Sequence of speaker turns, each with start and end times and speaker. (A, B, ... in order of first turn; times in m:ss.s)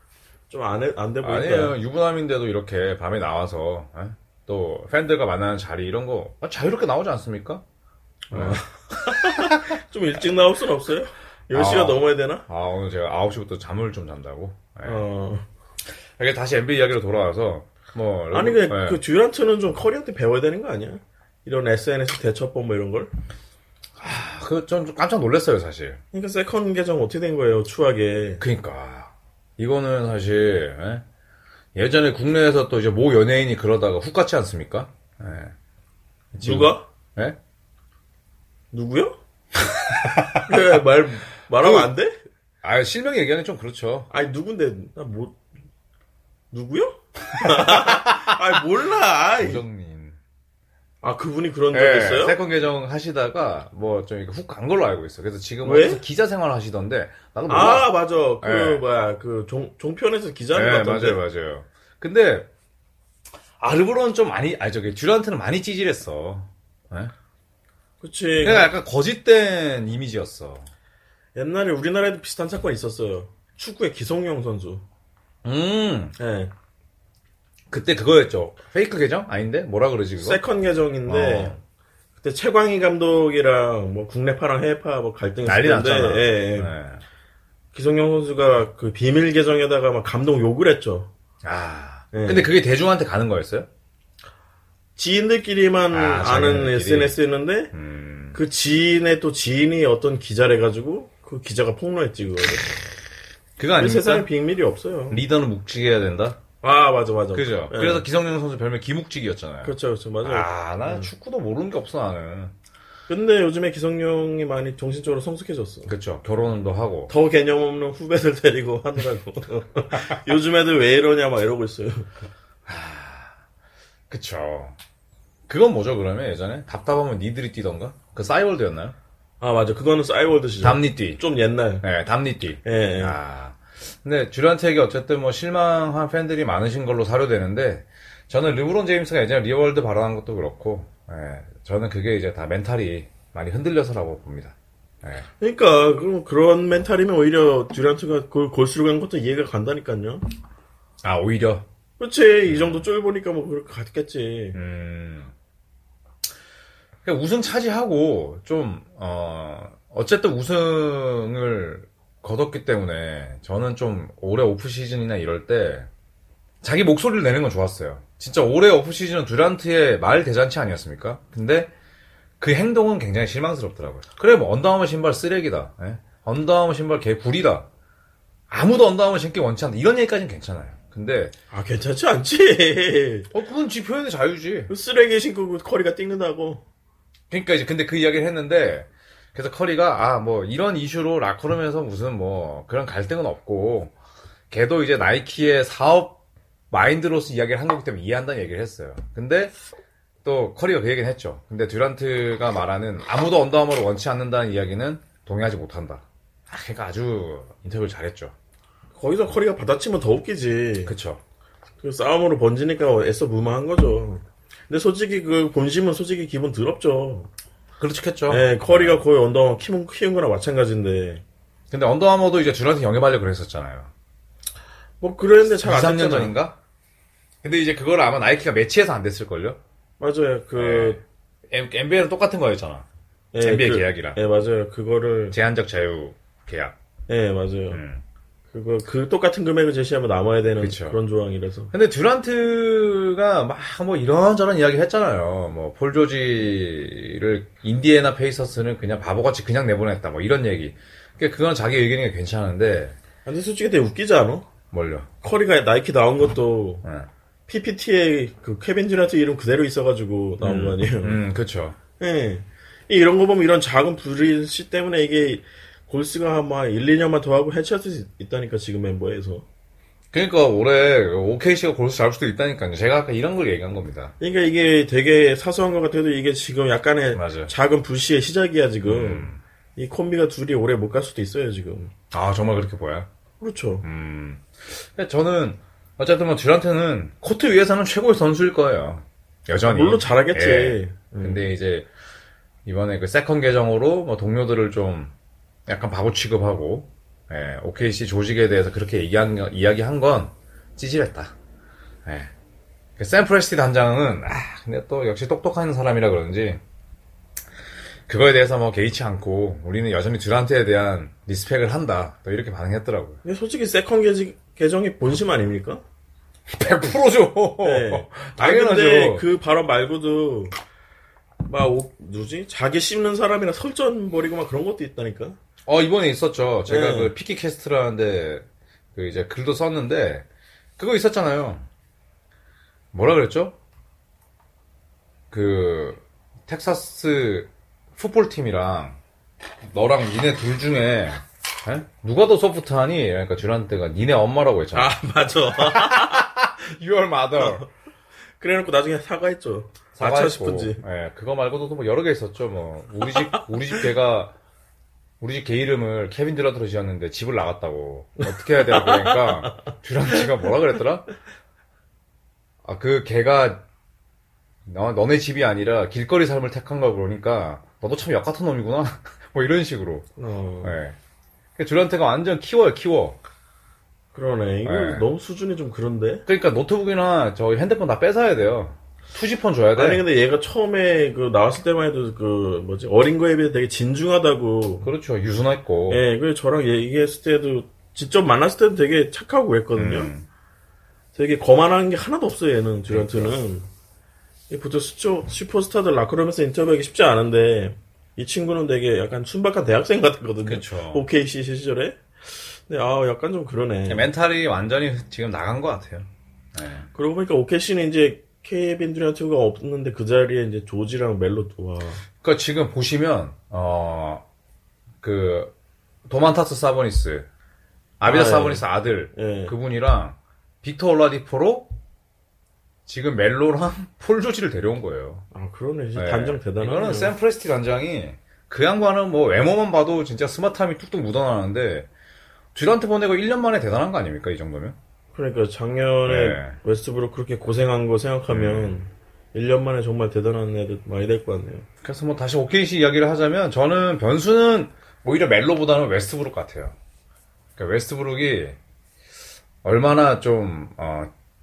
0:00.5-0:01.7 A
0:01.2-0:07.6 B
0:08.3-0:12.4 A
0:08.3-0:09.6 B
0:11.5-0:15.0 B
0:14.8-0:15.4 A
0:16.2-0:19.0 B
0:18.3-0:23.1 A
0:24.0-0:26.0 B
0:26.1-0:28.4 A
0:28.4-0:31.0 B
0:31.7-0:35.5 B
0:36.3-0:37.4 B
0:36.4-0:36.8 A
0:38.7-0:39.1 A
0:39.9-0:40.4 B
0:40.4-0:42.1 A
0:41.6-0:41.9 B
0:42.6-0:44.1 B
0:44.1-0:45.4 A
0:46.5-0:49.6 A
0:47.3-0:48.4 B
0:49.4-0:50.2 B
0:51.0-0:52.4 A
0:51.7-0:58.8 B
0:55.6-0:56.0 A
0:57.5-1:01.2 A
1:00.5-1:02.5 B
1:03.6-1:07.1 B
1:08.0-1:08.7 A
1:08.4-1:10.7 B
1:11.4-1:14.8 A
1:15.4-1:16.2 B
1:16.2-1:16.5 A
1:17.7-1:20.4 B
1:20.2-1:21.6 A
1:21.1-1:21.6 B
1:22.2-1:26.7 A
1:25.4-1:27.0 B
1:27.7-1:31.1 A
1:31.4-1:33.7 B
1:32.1-1:32.5 A
1:35.0-1:37.7 A
1:35.9-1:37.2 B
1:37.7-1:38.4 B
1:38.3-1:42.9 A
1:43.6-1:44.3 B
1:43.8-1:45.2 A
1:45.1-1:46.4 B
1:46.6-1:48.0 A
1:47.3-1:52.5 B
1:49.6-1:51.1 A
1:53.1-1:55.9 A
1:55.8-1:57.1 B
1:57.1-2:02.1 A
2:02.7-2:03.4 B
2:04.1-2:04.8 B
2:05.5-2:08.9 B
2:09.4-2:11.8 A
2:10.6-2:11.2 B
2:11.8-2:25.3 B
2:12.6-2:13.2 A
2:25.4-2:30.3 A
2:31.0-2:31.6 B
2:32.0-2:34.6 A
2:32.5-2:32.8 B
2:34.5-2:35.3 B
2:37.0-2:45.9 B
2:46.6-2:51.7 B
2:52.4-2:57.7 B
2:58.5-3:01.3 B
3:01.5-3:03.3 A
3:03.3-3:04.7 B
3:04.7-3:06.6 A
3:07.3-3:13.9 B
3:14.5-3:19.5 B
3:20.2-3:28.3 B
3:28.9-3:30.9 A
3:30.8-3:31.2 B
3:31.8-3:37.3 A
3:37.8-3:39.0 B
3:38.3-3:41.2 A
3:41.7-3:43.9 B
3:45.0-3:46.3 A
3:45.6-3:46.6 B
3:47.4-3:49.6 B
3:50.0-3:51.0 A
3:50.6-3:52.8 B
3:53.3-3:55.4 A
3:53.4-3:54.2 B
3:55.3-3:56.7 B
3:57.1-3:57.8 A
3:57.7-3:58.0 B
3:58.5-4:01.7 A
4:00.6-4:01.0 B
4:01.7-4:13.0 B
4:13.2-4:14.4 A
4:14.7-4:15.1 B
4:15.2-4:16.8 A
4:16.8-4:17.1 B
4:17.5-4:21.2 A
4:20.4-4:21.8 B
4:22.0-4:29.4 A
4:30.1-4:34.1 B
4:34.2-4:41.9 A
4:37.1-4:37.5 B
4:38.8-4:39.4 B
4:42.1-4:43.1 B
4:43.4-4:43.8 A
4:43.8-4:51.9 B
4:49.6-4:51.5 A
4:52.6-4:55.1 B
4:55.7-5:01.3 B
5:02.0-5:02.3 B
5:03.0-5:06.6 B
5:08.1-5:13.2 B
5:13.2-5:15.8 A
5:16.5-5:19.3 B
5:17.6-5:20.5 A
5:21.4-5:25.4 A
5:25.6-5:30.2 B
5:26.7-5:27.1 A
5:30.8-5:31.7 B
5:32.9-5:33.5 B
5:35.3-5:39.0 B
5:39.6-5:45.0 B
5:44.7-5:46.2 A
5:45.5-5:47.6 B
5:48.4-5:50.8 A
5:50.0-5:54.3 B
5:55.2-6:01.1 B
5:58.7-5:59.7 A
6:02.6-6:03.6 B
6:04.6-6:10.1 B
6:10.2-6:10.8 A
6:10.6-6:11.0 B
6:11.6-6:13.2 B
6:14.1-6:16.2 A
6:14.6-6:15.0 B
6:16.3-6:20.0 B
6:19.8-6:24.9 A
6:24.8-6:26.0 B
6:25.9-6:30.1 A
6:29.8-6:30.3 B
6:31.1-6:33.7 A
6:32.9-6:33.3 B
6:34.5-6:44.1 A
6:40.4-6:41.1 B
6:43.9-6:46.9 B
6:46.9-6:52.0 A
6:52.2-6:54.2 B
6:55.0-6:55.5 B
6:56.1-6:57.3 B
6:58.0-7:01.7 B
6:58.0-6:59.5 A
7:02.8-7:05.2 B
7:05.3-7:07.1 A
7:06.0-7:11.9 B
7:12.5-7:14.8 B
7:15.1-7:21.6 A
7:16.0-7:16.6 B
7:18.3-7:18.8 B
7:21.8-7:26.8 B
7:27.6-7:28.6 B
7:29.6-7:31.1 B